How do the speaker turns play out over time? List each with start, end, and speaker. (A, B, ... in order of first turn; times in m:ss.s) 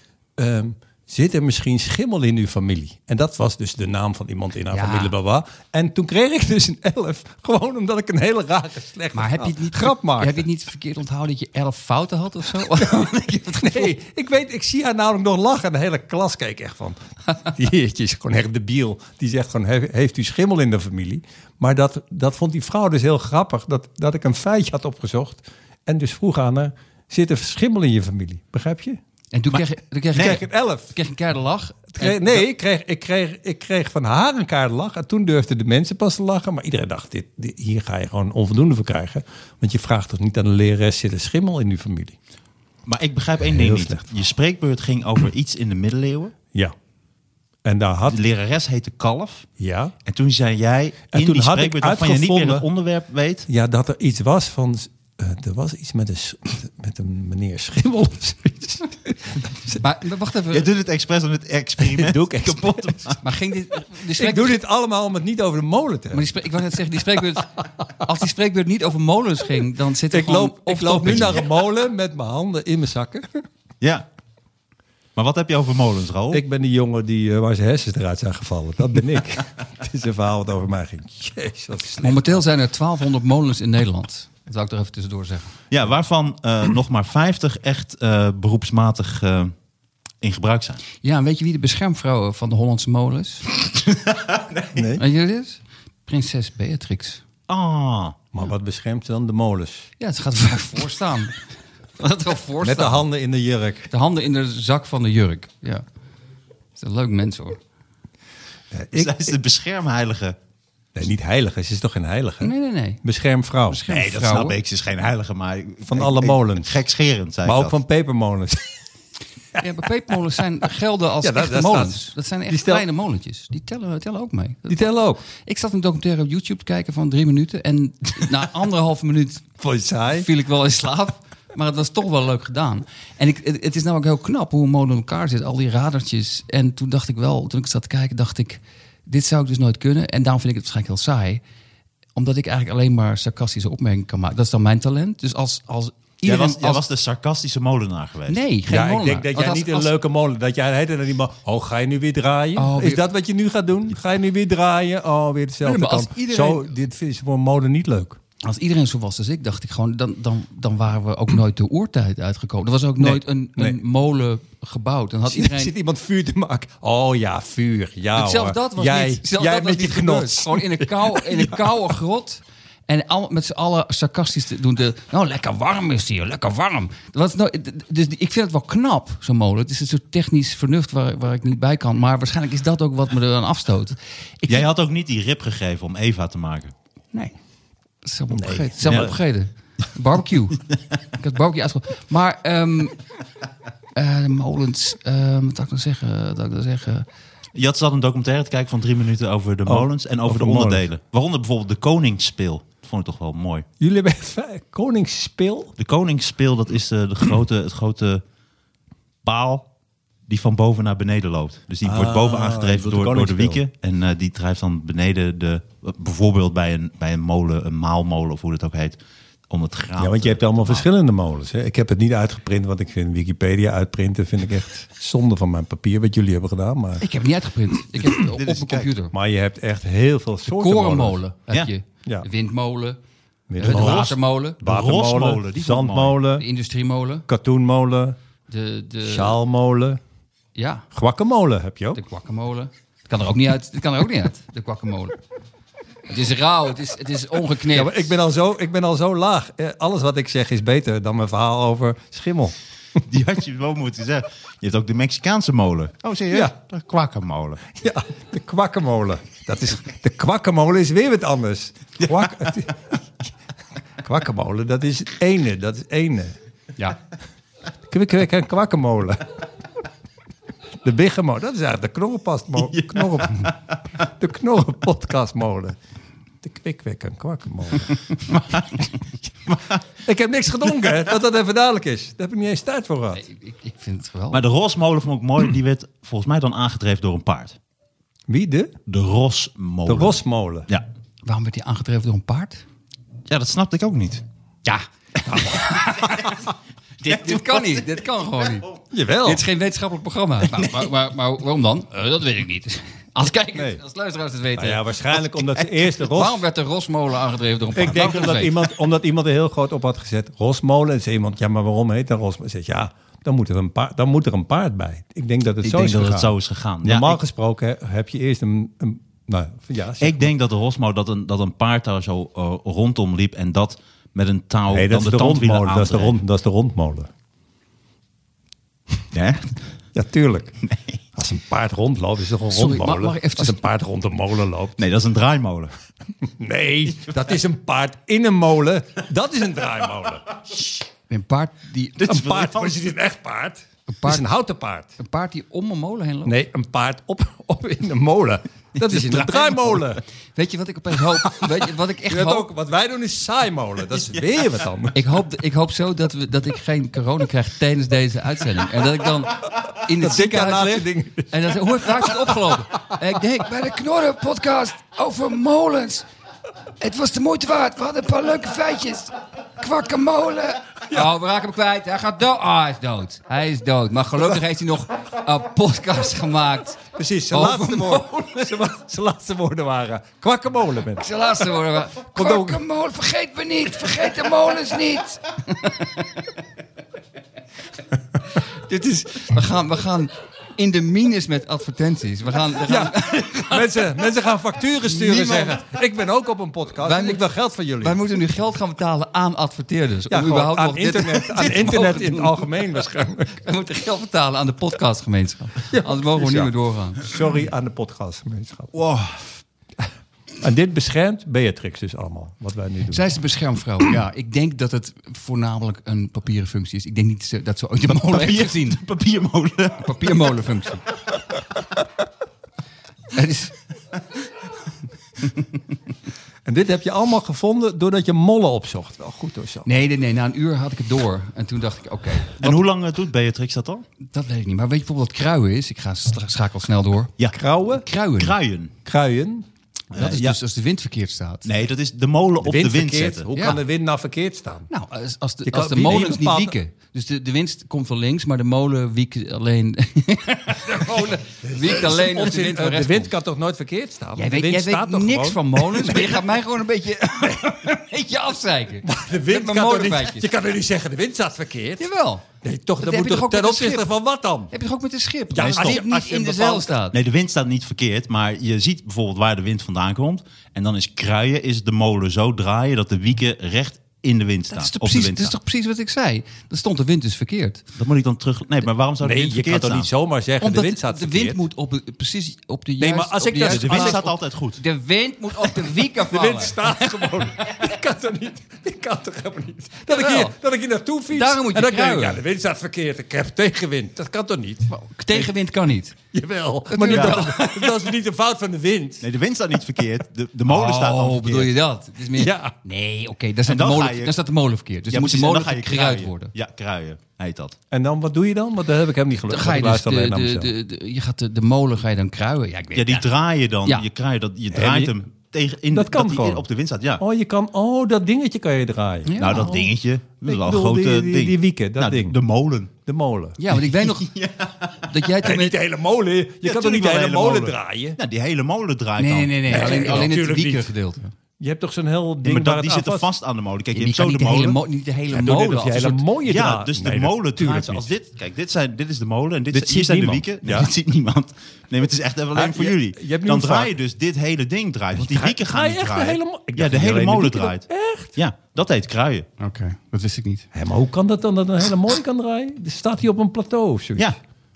0:00.4-0:10.4 A
0:04.7-0:05.1 B
0:09.1-0:14.0 B
0:13.5-0:29.0 A
0:29.3-0:32.5 B
0:30.1-0:30.9 A
0:32.0-0:42.2 A
0:42.8-0:46.4 C
0:43.4-0:44.2 A
0:47.6-0:48.2 A
0:48.1-0:49.5 C
0:49.6-0:49.9 A
0:50.0-0:53.5 C
0:51.1-0:52.7 A
0:53.5-0:59.8 A
0:59.8-1:00.7 B
1:00.5-1:03.2 C
1:01.8-1:03.2 A
1:03.2-1:04.6 B
1:04.1-1:06.3 A
1:06.1-1:11.4 B
1:10.1-1:13.4 A
1:15.2-1:16.4 C
1:16.3-1:22.4 A
1:22.0-1:25.5 B
1:25.7-1:29.5 C
1:30.2-1:30.8 C
1:31.0-1:33.5 B
1:33.9-1:34.8 C
1:34.7-1:35.0 A
1:35.0-1:37.2 B
1:37.5-1:38.2 C
1:38.3-1:39.9 A
1:40.0-1:41.4 B
1:42.0-1:43.0 B
1:42.6-1:43.9 A
1:43.9-1:45.8 B
1:46.8-1:47.6 B
1:48.7-1:49.3 A
1:48.9-1:50.4 C
1:50.9-1:52.5 A
1:52.4-1:53.0 B
1:53.0-1:53.8 A
1:53.7-1:54.6 B
1:53.9-1:57.8 C
1:55.8-1:56.7 A
1:57.4-1:58.8 A
1:59.5-2:00.1 A
1:59.5-2:09.6 B
2:01.2-2:02.8 A
2:04.7-2:05.2 A
2:09.6-2:10.3 A
2:10.1-2:21.4 B
2:22.1-2:26.8 B
2:26.2-2:28.4 C
2:28.3-2:29.9 B
2:28.7-2:38.2 A
2:32.6-2:33.0 B
2:35.6-2:36.7 B
2:38.4-2:45.7 B
2:43.0-2:43.8 A
2:45.2-2:51.7 A
2:48.1-3:04.6 B
3:04.5-3:06.7 C
3:08.0-3:13.0 B
3:08.3-3:09.1 A
3:08.8-3:09.1 C
3:14.0-3:17.0 B
3:17.6-3:23.6 C
3:19.6-3:20.9 A
3:23.8-3:25.7 A
3:25.8-3:28.2 C
3:29.2-3:29.7 C
3:30.3-3:39.0 C
3:31.8-3:33.6 A
3:39.5-3:40.8 C
3:40.0-3:47.0 A
3:47.0-3:49.1 B
3:48.0-3:48.9 C
3:49.1-3:51.2 A
3:50.5-3:53.0 B
3:53.5-3:56.4 A
3:53.6-3:54.6 B
3:53.6-3:56.2 C
3:56.3-3:57.2 B
3:57.3-3:58.2 A
3:58.5-3:59.4 B
3:59.0-4:00.0 A
4:00.5-4:00.8 B
4:00.9-4:02.0 A
4:01.9-4:05.2 B
4:06.1-4:08.1 B
4:07.7-4:12.5 A
4:13.1-4:17.6 C
4:17.7-4:23.3 A
4:22.0-4:22.5 C
4:24.0-4:26.4 A
4:27.9-4:29.4 A
4:30.8-4:35.8 A
4:32.7-4:33.6 C
4:36.4-4:38.0 A
4:38.3-4:38.9 C
4:39.5-4:39.8 C
4:40.0-4:43.2 A
4:43.2-4:44.4 B
4:44.3-4:47.6 C
4:48.3-4:48.8 A
4:48.9-4:50.8 C
4:49.8-4:50.7 A
4:51.2-4:52.6 B
4:53.3-4:54.2 C
4:54.6-5:04.8 B
4:57.0-4:58.0 C
4:58.9-4:59.4 A
5:03.5-5:03.8 A
5:04.6-5:06.4 A
5:05.3-5:05.8 C
5:06.0-5:08.5 B
5:07.8-5:20.3 A
5:15.6-5:17.2 C
5:20.0-5:26.2 C
5:24.7-5:27.1 A
5:29.1-5:29.5 C
5:29.9-5:30.6 A
5:30.7-5:31.0 C
5:31.2-5:34.8 A
5:32.5-5:33.6 B
5:34.8-5:35.7 C
5:36.2-5:40.6 A
5:41.1-5:42.2 B
5:42.0-5:42.8 C
5:42.0-5:44.9 A
5:43.9-5:44.3 B
5:45.0-5:46.3 B
5:46.2-5:50.0 A
5:49.1-5:52.5 B
5:51.5-5:55.0 A
5:54.0-5:54.3 C
5:54.9-6:06.0 B
5:59.9-6:02.6 A
6:06.8-6:18.6 B
6:10.9-6:11.1 A
6:16.9-6:21.1 A
6:21.0-6:26.3 B
6:22.0-6:22.6 A
6:28.3-6:34.0 B
6:32.6-6:38.0 A
6:34.8-6:35.6 B
6:36.8-6:37.3 B
6:37.8-6:42.7 B
6:40.1-6:43.4 A
6:43.4-6:47.1 B
6:45.7-6:48.7 A
6:48.7-6:49.3 C
6:50.4-6:53.1 A
6:52.9-6:58.8 B
6:57.9-7:00.1 C
6:59.8-7:00.8 B
7:03.1-7:03.5 B
7:06.4-7:09.7 A
7:09.6-7:12.6 B
7:12.4-7:13.8 C
7:14.1-7:17.1 B
7:17.3-7:17.8 A
7:17.6-7:18.3 B
7:18.2-7:18.7 C
7:18.8-7:19.5 A
7:19.9-7:20.4 C
7:19.9-7:21.5 B
7:21.4-7:23.3 C
7:22.4-7:24.7 A
7:23.3-7:23.6 B
7:24.7-7:33.1 B
7:25.4-7:26.6 A
7:30.7-7:36.3 A
7:34.2-7:40.3 B
7:37.2-7:37.5 A
7:38.8-7:41.9 A
7:41.8-7:42.2 B
7:42.4-7:44.5 A
7:42.8-7:43.9 B
7:44.5-7:47.0 B
7:45.3-7:46.7 A
7:45.4-7:45.8 C
7:46.9-7:55.3 C
7:54.5-7:57.6 B
7:57.8-7:59.9 C
7:59.0-8:01.4 A
8:00.4-8:07.2 B
8:02.8-8:04.0 A
8:03.4-8:04.6 C
8:05.6-8:14.7 A
8:09.9-8:10.3 B
8:11.1-8:12.2 B
8:14.7-8:16.0 B
8:16.1-8:19.1 A
8:16.7-8:17.6 B
8:16.9-8:17.3 C
8:19.0-8:21.5 C
8:20.5-8:26.3 B
8:22.1-8:22.5 A
8:23.4-8:24.2 C
8:24.9-8:27.6 C
8:27.7-8:30.5 A
8:29.3-8:33.1 B
8:32.7-8:37.0 C
8:34.5-8:34.9 A
8:35.7-8:36.4 A
8:37.0-8:39.7 A
8:39.0-8:39.6 B
8:39.2-8:42.7 C
8:40.2-8:42.2 A
8:42.8-8:43.4 A
8:43.4-8:44.1 B
8:43.7-8:45.0 C
8:44.8-8:45.6 B
8:45.2-8:48.0 A
8:46.4-8:50.1 C
8:49.0-8:51.1 B
8:49.5-8:50.7 A
8:51.4-8:53.1 A
8:52.2-8:54.6 C
8:53.7-8:56.0 B
8:55.1-8:57.9 A
8:56.3-9:09.3 C
8:59.5-9:00.7 A
9:02.3-9:03.7 A
9:05.0-9:08.1 A
9:09.4-9:10.5 B
9:10.5-9:14.1 A